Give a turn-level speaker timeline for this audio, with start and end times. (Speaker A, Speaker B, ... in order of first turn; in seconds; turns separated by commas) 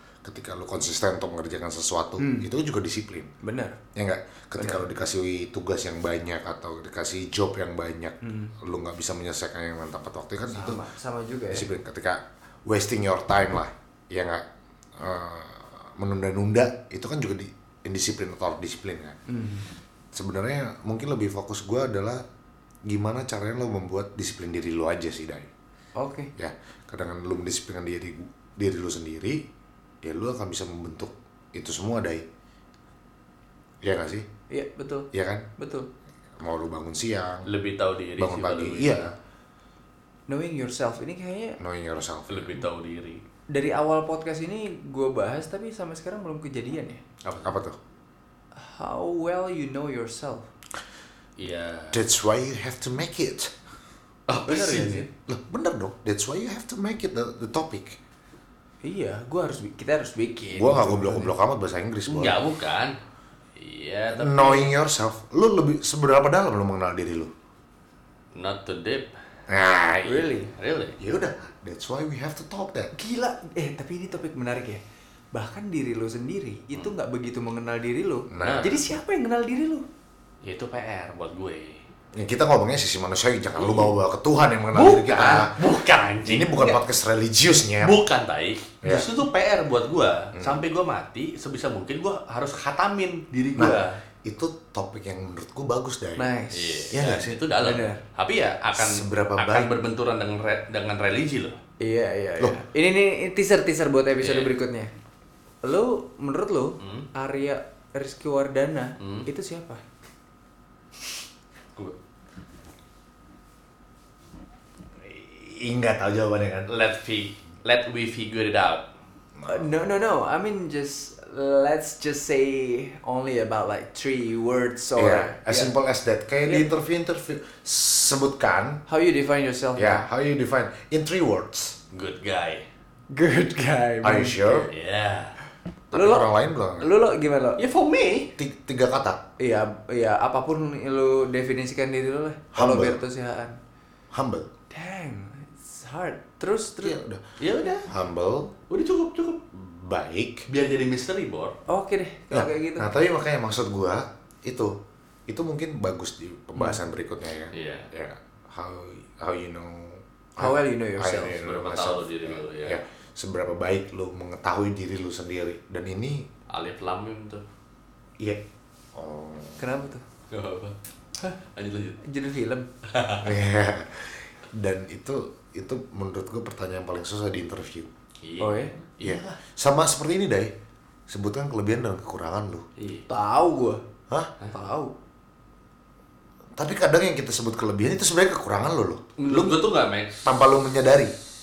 Speaker A: 0.2-3.3, Speaker B: 2.2-2.5, Speaker B: 3.4-3.8, Speaker A: 3.9-10.8, Speaker B: 4.6-4.8, Speaker B: 8.2-8.5, Speaker B: 10.5-11.7, Speaker A: 11.5-14.4, Speaker A: 14.9-19.2, Speaker B: 19.3-19.7, Speaker A: 20.1-22.2, Speaker A: 22.9-25.5, Speaker B: 25.9-26.3, Speaker A: 26.4-29.4, Speaker A: 30.0-32.2, Speaker A: 33.8-34.3, Speaker B: 34.5-35.9, Speaker A: 35.1-35.5, Speaker A: 36.4-37.5, Speaker C: 37.5-39.1, Speaker A: 38.2-39.1, Speaker B: 40.3-41.6, Speaker A: 41.6-42.6, Speaker C: 42.3-43.2, Speaker B: 43.5-47.0, Speaker A: 47.4-47.8, Speaker B: 48.5-50.5, Speaker C: 51.4-52.0, Speaker A: 51.9-53.5, Speaker C: 54.3-55.1, Speaker B: 54.4-55.1, Speaker A: 55.3-58.0, Speaker B: 58.8-61.3, Speaker A: 60.5-62.4, Speaker C: 62.1-63.0, Speaker C: 63.5-64.7, Speaker A: 64.1-67.3, Speaker C: 68.3-69.1, Speaker A: 69.5-70.3, Speaker B: 70.0-70.5, Speaker C: 70.5-71.0, Speaker A: 71.0-72.9, Speaker B: 72.9-74.8, Speaker B: 75.3-79.8, Speaker A: 78.3-78.7, Speaker C: 78.4-78.9, Speaker C: 80.4-81.8, Speaker A: 82.1-85.5, Speaker C: 83.6-83.9, Speaker C: 84.7-86.5, Speaker A: 86.2-87.9, Speaker C: 87.8-94.0, Speaker A: 88.8-89.1, Speaker A: 90.3-90.6, Speaker A: 93.5-96.3, Speaker B: 96.2-96.9, Speaker C: 96.5-101.6, Speaker A: 96.9-97.4, Speaker B: 97.6-98.0, Speaker A: 98.7-99.7, Speaker B: 101.8-104.9, Speaker C: 104.2-104.5, Speaker B: 105.6-109.8, Speaker C: 106.8-107.1, Speaker C: 109.0-109.3, Speaker A: 115.0-116.7, Speaker C: 116.7-118.9, Speaker A: 119.4-119.7, Speaker B: 119.5-125.7, Speaker A: 125.0-128.8, Speaker B: 128.9-130.1, Speaker A: 129.7-131.8, Speaker C: 131.9-132.7, Speaker B: 133.1-134.7, Speaker A: 134.0-134.7, Speaker C: 134.7-135.4, Speaker A: 135.9-136.9, Speaker B: 135.9-137.6, Speaker C: 137.6-138.3, Speaker A: 138.4-139.2, Speaker B: 139.4-143.6, Speaker A: 142.5-143.0, Speaker A: 144.1-144.5, Speaker B: 144.7-147.0, Speaker A: 146.8-147.2, Speaker C: 147.4-147.9, Speaker A: 147.8-148.5, Speaker C: 148.7-149.4, Speaker A: 149.5-150.5, Speaker C: 150.5-151.6, Speaker B: 151.7-152.9, Speaker A: 152.3-154.7, Speaker A: 155.3-166.3, Speaker C: 157.5-157.9, Speaker B: 160.4-161.3, Speaker C: 161.3-162.8, Speaker C: 166.5-167.4, Speaker A: 168.9-169.6, Speaker B: 169.6-170.0, Speaker C: 170.3-172.0, Speaker B: 172.0-172.7, Speaker C: 172.9-173.3, Speaker A: 173.2-177.9, Speaker C: 178.2-179.4, Speaker B: 178.4-178.7, Speaker A: 179.0-180.5, Speaker A: 181.1-182.7, Speaker C: 182.8-183.1, Speaker B: 183.1-183.8, Speaker B: 184.5-184.9, Speaker A: 186.6-189.6, Speaker C: 189.2-190.3, Speaker A: 190.2-191.1